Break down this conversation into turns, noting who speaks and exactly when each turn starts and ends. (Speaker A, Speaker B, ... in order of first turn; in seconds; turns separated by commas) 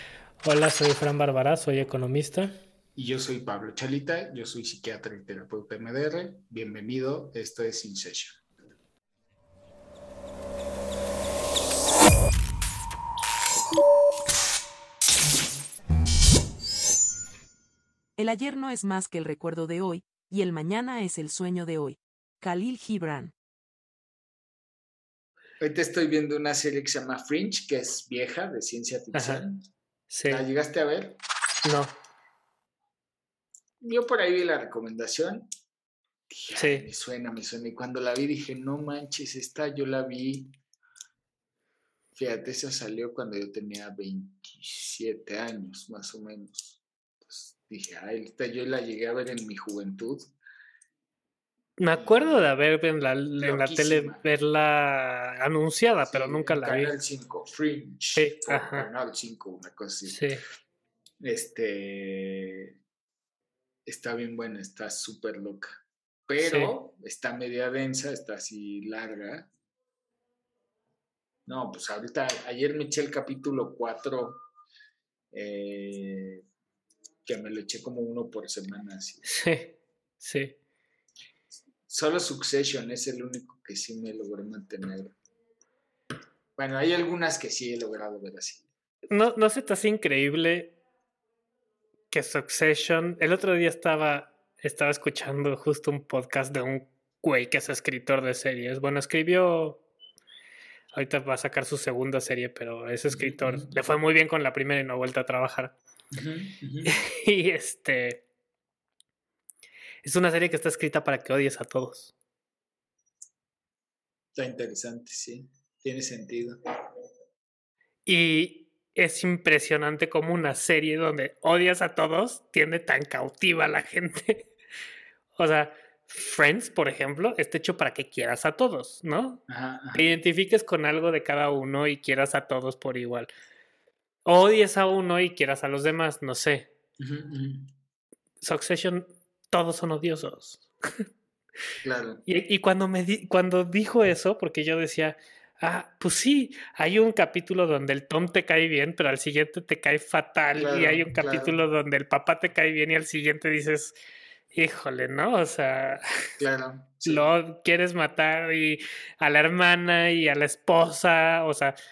Speaker A: 0.4-2.5, Speaker B: 2.9-8.3, Speaker C: 18.2-23.3, Speaker B: 25.6-29.7, Speaker A: 29.1-29.4, Speaker A: 30.1-30.4, Speaker B: 30.2-31.2, Speaker A: 31.6-31.9, Speaker B: 33.8-35.5, Speaker B: 36.3-40.5, Speaker A: 36.6-36.9, Speaker B: 42.1-50.3, Speaker A: 51.8-56.9, Speaker B: 51.9-52.6, Speaker B: 53.4-54.2, Speaker B: 56.0-60.2, Speaker A: 58.2-58.9, Speaker A: 60.0-60.4, Speaker B: 61.2-62.8, Speaker B: 63.9-69.5, Speaker A: 66.4-66.7, Speaker B: 71.5-74.4, Speaker B: 75.3-76.4, Speaker B: 77.2-79.2, Speaker A: 79.2-80.5, Speaker B: 81.9-85.1, Speaker B: 86.5-88.6, Speaker A: 89.1-90.8, Speaker A: 92.1-99.8, Speaker A: 100.9-105.8, Speaker B: 103.1-103.8, Speaker B: 106.1-106.9, Speaker A: 106.8-108.2, Speaker A: 110.0-112.1, Speaker B: 114.3-116.6, Speaker A: 118.0-124.5, Speaker A: 125.3-129.4, Speaker B: 129.5-130.2, Speaker A: 129.9-133.3, Speaker A: 134.2-136.7, Speaker B: 137.0-137.7, Speaker A: 138.4-140.7, Speaker B: 141.8-142.2, Speaker A: 142.2-153.9, Speaker B: 150.5-151.6, Speaker A: 154.5-156.0, Speaker B: 156.4-157.3, Speaker A: 157.0-161.8